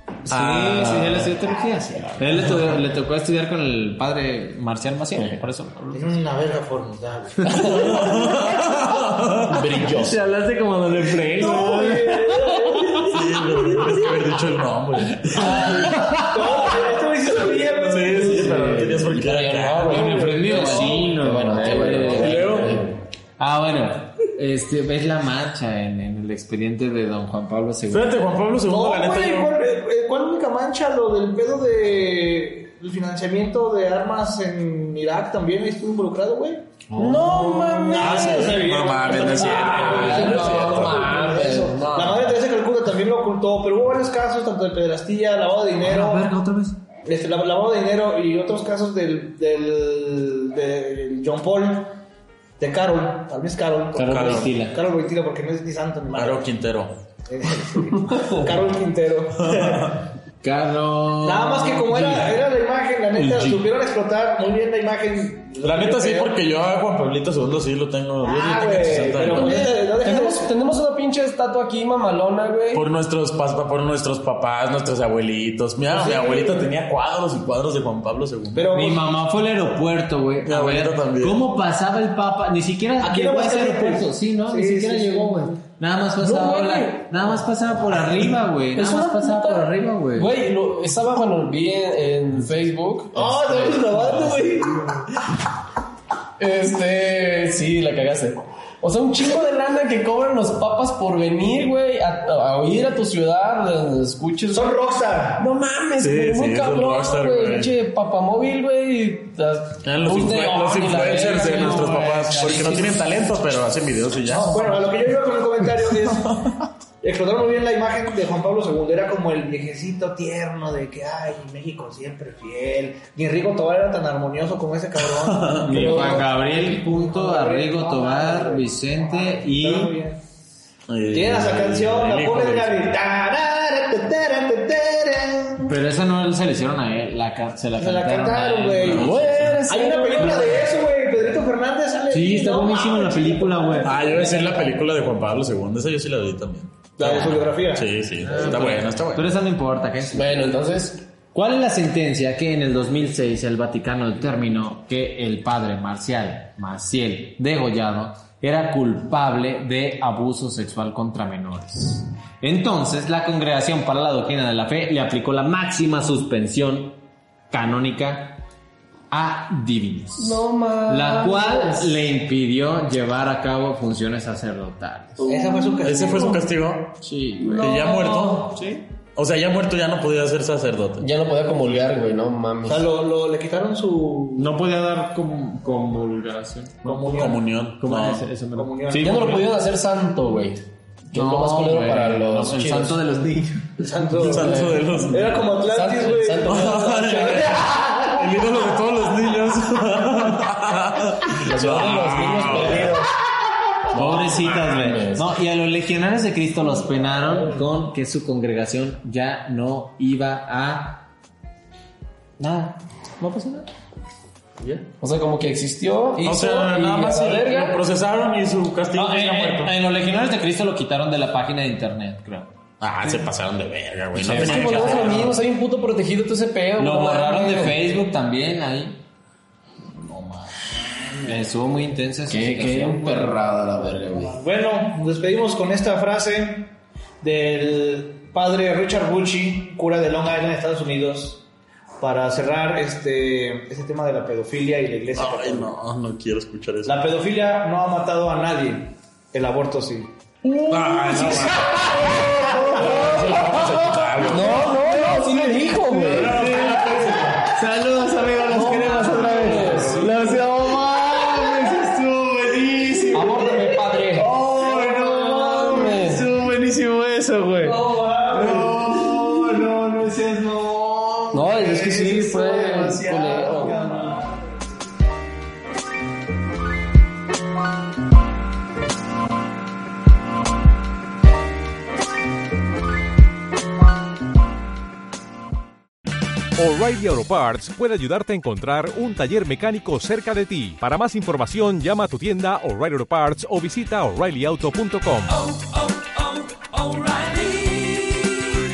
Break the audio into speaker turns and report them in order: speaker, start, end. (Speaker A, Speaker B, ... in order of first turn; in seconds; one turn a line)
Speaker A: 0.2-6.2
Speaker B: 0.3-1.2
Speaker C: 0.6-1.2
Speaker D: 5.9-8.1
Speaker A: 7.4-7.7
Speaker B: 7.6-9.7
Speaker C: 7.7-8.3
Speaker C: 9.5-10.2
Speaker A: 9.7-13.0
Speaker D: 11.4-13.2
Speaker B: 13.1-15.8
Speaker A: 15.2-16.4
Speaker C: 15.4-16.9
Speaker D: 16.1-18.4
Speaker B: 17.6-20.3
Speaker C: 18.1-23.0
Speaker D: 19.8-21.2
Speaker A: 19.9-22.6
Speaker B: 22.1-22.8
Speaker A: 23.4-28.3
Speaker B: 27.9-29.6
Speaker D: 28.7-36.6
Speaker A: 36.9-38.0
Speaker C: 37.0-42.4
Speaker D: 37.9-46.3
Speaker B: 38.0-41.1
Speaker A: 45.8-46.8
Speaker D: 47.0-52.0
Speaker D: 52.6-56.5
Speaker A: 53.9-54.7
Speaker B: 54.0-54.5
Speaker B: 56.1-57.0
Speaker D: 57.3-60.0
Speaker B: 59.4-60.0
Speaker A: 60.4-62.4
Speaker D: 61.2-66.4
Speaker A: 63.2-63.6
Speaker B: 65.6-69.7
Speaker D: 68.2-70.5
Speaker C: 69.2-72.8
Speaker B: 72.7-78.7
Speaker D: 75.9-76.7
Speaker D: 78.5-79.1
Speaker A: 78.7-90.3
Speaker B: 80.4-81.4
Speaker D: 83.0-85.6
Speaker C: 86.2-87.3
Speaker C: 88.8-94.3
Speaker D: 93.1-95.1
Speaker C: 96.4-104.8
Speaker D: 104.5-105.5
Speaker C: 105.4-112.8
Speaker B: 106.0-107.7
Speaker B: 109.8-114.7
Speaker A: 111.3-113.1
Speaker D: 114.4-116.4
Speaker B: 116.1-116.5
Speaker D: 117.0-130.2
Speaker B: 125.0-125.9
Speaker A: 125.6-130.0
Speaker C: 125.8-126.2
Speaker B: 130.9-133.0
Speaker D: 131.1-135.7
Speaker A: 135.7-140.7
Speaker D: 137.8-139.1
Speaker B: 138.8-139.2
Speaker C: 138.8-140.6
Speaker D: 139.7-144.7
Speaker A: 142.1-144.6
Speaker B: 143.8-149.3
Speaker D: 147.0-147.9
Speaker A: 147.0-147.5
Speaker A: 148.2-150.4
Speaker C: 150.1-151.0
Speaker A: 151.3-168.4
Speaker A: 169.1-175.2
Speaker C: 170.2-172.0
Speaker C: 175.2-176.4
Speaker D: 175.2-176.5
Speaker B: 175.8-177.0
Speaker C: 177.0-178.8
Speaker B: 177.6-178.6
Speaker B: 179.2-181.1
Speaker C: 181.0-182.9
Speaker D: 182.6-184.5
Speaker A: 184.4-189.4
Speaker D: 186.8-187.4
Speaker B: 187.0-188.2
Speaker D: 188.5-189.4
Speaker C: 188.9-193.0
Speaker A: 191.1-193.9
Speaker D: 193.8-198.2
Speaker B: 194.1-195.5
Speaker C: 194.2-197.6
Speaker B: 196.4-203.0
Speaker C: 201.4-203.1
Speaker C: 203.9-205.4
Speaker A: 203.9-211.1
Speaker A: 212.4-213.7
Speaker C: 214.9-217.8
Speaker B: 216.2-219.7
Speaker A: 218.9-222.5
Speaker B: 222.8-225.4
Speaker C: 224.1-227.8
Speaker A: 224.2-225.3
Speaker A: 226.8-229.0
Speaker D: 230.0-231.5
Speaker A: 231.2-233.4
Speaker C: 232.3-234.4
Speaker D: 234.1-241.4
Speaker D: 242.0-245.7
Speaker B: 245.1-247.1
Speaker D: 246.8-250.1
Speaker C: 250.5-256.5
Speaker B: 250.7-254.9
Speaker D: 251.2-251.5
Speaker A: 254.8-266.9
Speaker B: 256.0-257.4
Speaker C: 258.5-267.8
Speaker D: 264.4-265.2
Speaker D: 267.6-268.9
Speaker A: 268.3-274.3
Speaker C: 271.3-273.9
Speaker E: 286.6-298.1